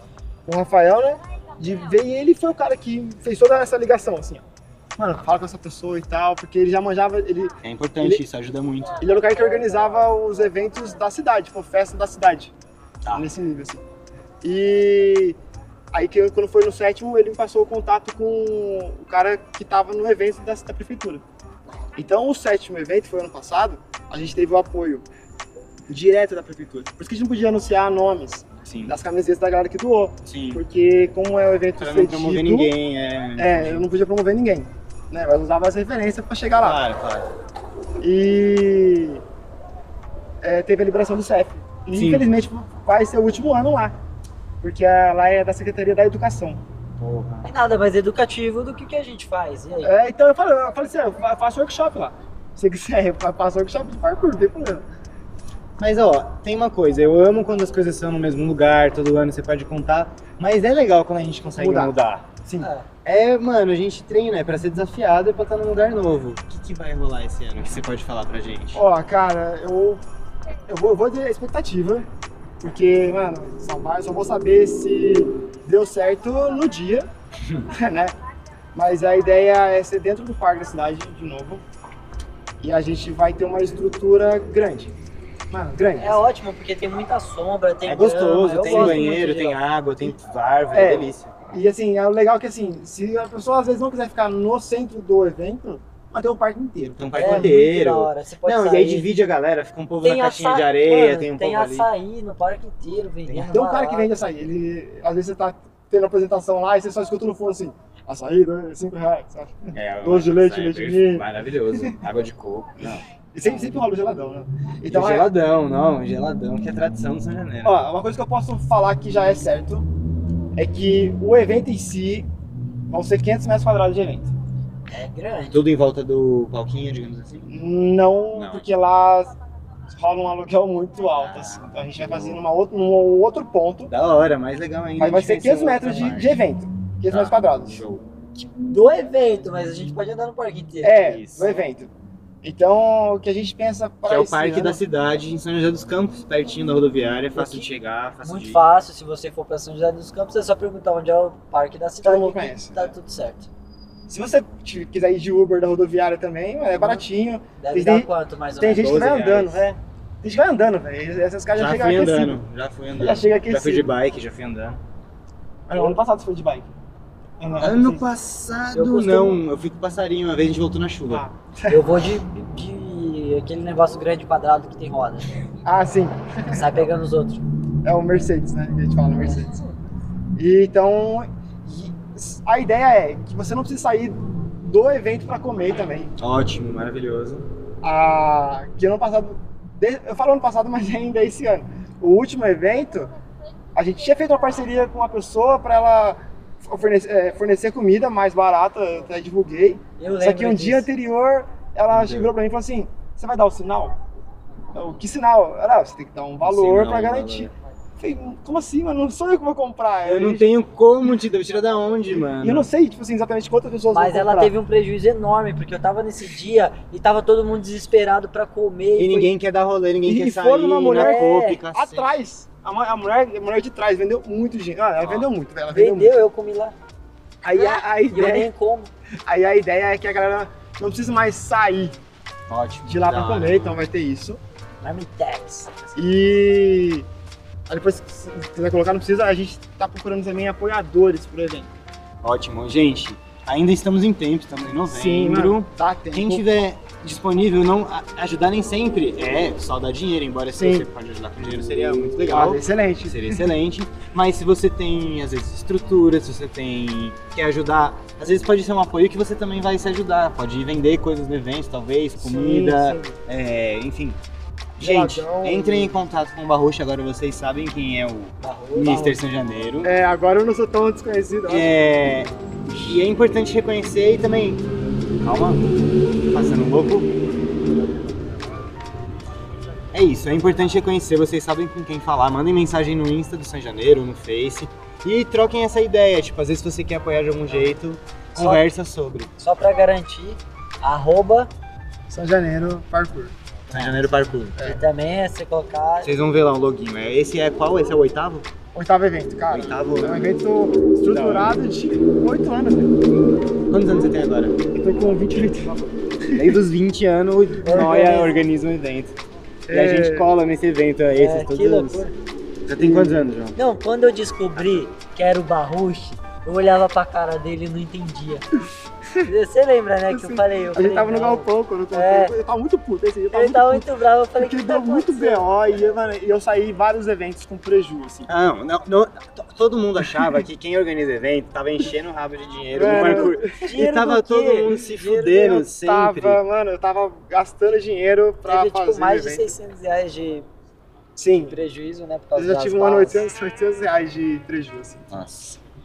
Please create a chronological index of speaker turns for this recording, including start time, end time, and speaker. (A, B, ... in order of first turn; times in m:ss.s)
0:00.4-0:04.4 A
0:05.0-0:08.2 A
0:07.6-0:09.0 B
0:09.0-0:12.5 A
0:13.1-0:13.8 A
0:14.4-0:15.4 A
0:15.9-0:21.2 A
0:21.9-0:25.0 A
0:25.9-0:32.7 A
0:28.6-0:28.9 B
0:30.2-0:30.6 B
0:31.8-0:33.8 B
0:33.4-0:36.8 A
0:36.6-0:37.3 B
0:38.0-0:39.2 A
0:40.4-0:44.0 A
0:41.9-0:42.2 B
0:44.6-0:46.6 A
0:47.0-0:47.5 B
0:47.4-0:49.9 C
0:49.8-0:54.8 A
0:55.8-1:02.3 B
1:01.6-1:02.7 A
1:02.6-1:02.8 C
1:03.0-1:08.8 B
1:08.7-1:10.0 A
1:10.7-1:12.1 A
1:12.6-1:17.1 A
1:17.7-1:18.1 A
1:18.7-1:21.6 A
1:22.6-1:24.9 A
1:25.5-1:26.2 A
1:26.0-1:29.6 C
1:27.9-1:31.4 B
1:28.6-1:29.0 A
1:30.7-1:37.6 A
1:36.9-1:41.9 B
1:37.2-1:39.1 C
1:40.0-1:44.2 C
1:43.3-1:43.5 B
1:43.5-1:52.0 A
1:49.7-1:53.1 B
1:53.2-1:55.3 A
1:54.9-1:57.8 B
1:57.6-1:59.9 A
2:00.6-2:02.3 A
2:02.9-2:04.3 A
2:04.9-2:05.6 C
2:05.5-2:07.5 B
2:07.5-2:09.3 A
2:08.3-2:08.6 B
2:09.9-2:13.9 A
2:11.1-2:12.4 B
2:13.9-2:16.3 B
2:15.0-2:17.8 A
2:17.1-2:18.0 B
2:18.4-2:21.5 C
2:20.8-2:21.9 A
2:20.9-2:21.5 B
2:22.4-2:24.8 A
2:24.1-2:28.6 B
2:27.4-2:27.6 C
2:28.2-2:33.5 C
2:32.0-2:32.9 A
2:34.1-2:42.4 A
2:36.8-2:37.0 C
2:37.6-2:39.1 C
2:38.7-2:39.8 B
2:41.6-2:44.8 B
2:43.0-2:43.9 A
2:45.7-2:46.7 A
2:47.4-2:48.1 A
2:47.6-2:51.2 B
2:48.7-2:49.4 C
2:51.1-2:51.8 A
2:51.7-2:55.3 C
2:55.6-2:56.8 A
2:56.5-2:57.4 C
2:57.8-2:59.5 A
3:00.4-3:06.1 A
3:06.2-3:07.4 B
3:07.8-3:13.1 A
3:13.7-3:24.0 A
3:20.0-3:20.9 C
3:21.9-3:22.3 B
3:24.7-3:30.5 A
3:26.4-3:27.5 B
3:30.0-3:32.7 B
3:32.3-3:34.5 A
3:33.9-3:39.3 C
3:39.0-3:42.1 B
3:40.0-3:46.2 A
3:40.9-3:41.6 C
3:45.0-3:45.3 B
3:45.7-3:46.7 C
3:47.4-3:48.5 A
3:47.5-3:48.9 C
3:49.2-3:52.0 A
3:52.5-3:53.8 B
3:52.8-3:54.4 A
3:54.8-3:55.8 C
3:55.9-3:57.1 A
3:57.7-4:01.7 A
4:02.2-4:24.2 B
4:04.9-4:06.4 A
4:10.5-4:10.9 A
4:12.3-4:13.5 A
4:22.2-4:23.2 A
4:24.8-4:29.9 B
4:24.8-4:26.0 A
4:28.4-4:29.2 C
4:29.8-4:31.7 A
4:31.5-4:34.6 B
4:35.2-4:35.6 B
4:36.3-4:37.1 B
4:39.9-4:49.3 B
4:48.4-4:48.6 C
4:49.4-4:51.5 C
4:52.1-4:53.4 A
4:53.7-4:54.6 B
4:54.6-4:56.1 C
4:56.0-4:58.5 B
4:58.7-5:02.9 A
4:59.5-5:00.2 B
5:01.1-5:01.5 B
5:03.7-5:04.6 B
5:04.7-5:06.6 A
5:06.3-5:09.2 B
5:07.6-5:08.4 C
5:09.7-5:10.3 A
5:09.7-5:12.0 B
5:11.1-5:12.1 C
5:12.6-5:13.6 B
5:12.8-5:13.2 A
5:13.6-5:18.5 C
5:14.6-5:14.8 B
5:19.1-5:19.3 A
5:19.2-5:22.3 C
5:20.1-5:23.9 A
5:23.3-5:25.4 C
5:24.4-5:28.3 A
5:28.3-5:36.4 B
5:32.7-5:33.7 A
5:32.8-5:35.5 C
5:35.4-5:39.5 A
5:38.4-5:40.5 C
5:41.2-5:41.6 A
5:41.4-5:43.2 C
5:42.3-5:45.1 A
5:45.1-5:45.6 B